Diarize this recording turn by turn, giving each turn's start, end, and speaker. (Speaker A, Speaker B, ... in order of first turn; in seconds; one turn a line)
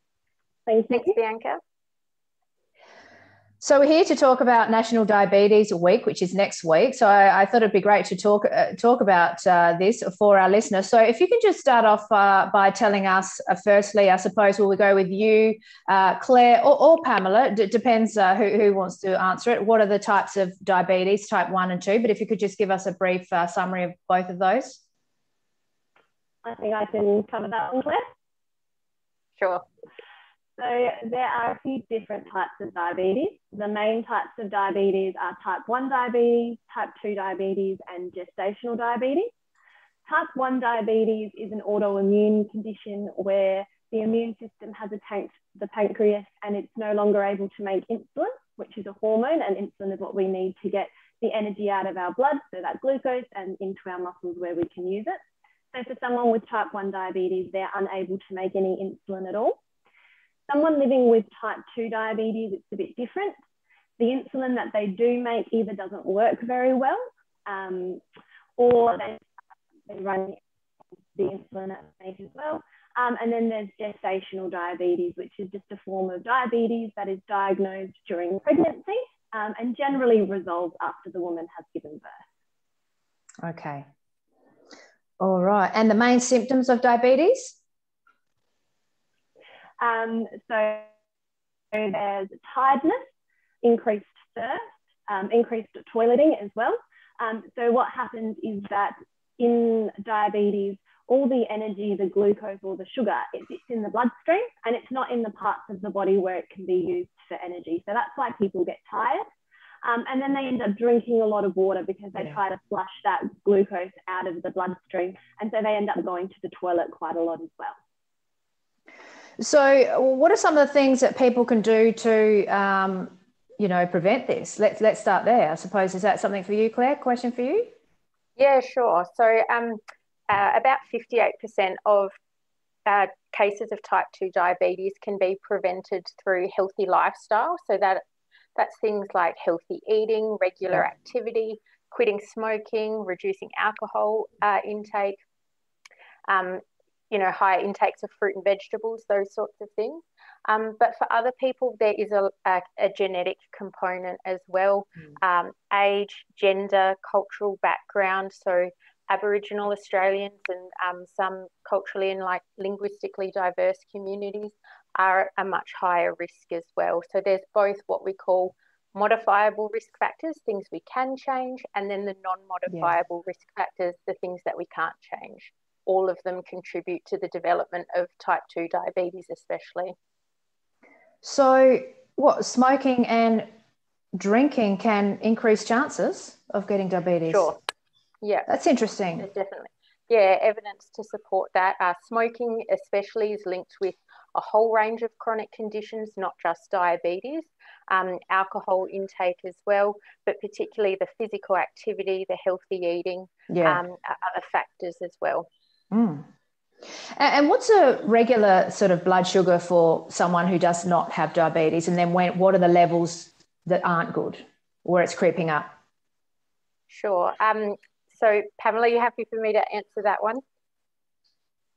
Speaker A: 0.7-1.2
Speaker B: 0.9-1.6
Speaker C: 3.6-24.8
Speaker A: 26.4-28.1
Speaker B: 29.4-29.6
Speaker A: 30.6-39.3
Speaker A: 40.0-55.2
Speaker A: 55.7-59.6
Speaker A: 60.5-63.4
Speaker A: 64.0-68.0
Speaker A: 68.6-69.2
Speaker A: 69.9-70.4
Speaker A: 71.1-82.3
Speaker C: 83.4-83.8
Speaker C: 85.2-87.6
Speaker A: 89.8-90.9
Speaker A: 91.7-93.1
Speaker A: 93.6-109.2
Speaker A: 109.8-117.8
Speaker C: 119.4-127.7
Speaker B: 128.3-132.1
Speaker B: 132.8-138.0
Speaker B: 138.6-145.2
Speaker B: 146.3-179.9
Speaker C: 172.7-172.9
Speaker C: 181.2-183.5
Speaker C: 184.1-187.5
Speaker B: 187.3-187.6
Speaker B: 188.2-188.5
Speaker C: 188.5-189.2
Speaker B: 189.2-205.5
Speaker C: 203.5-203.8
Speaker C: 205.9-206.3
Speaker C: 207.2-215.7
Speaker B: 216.9-220.4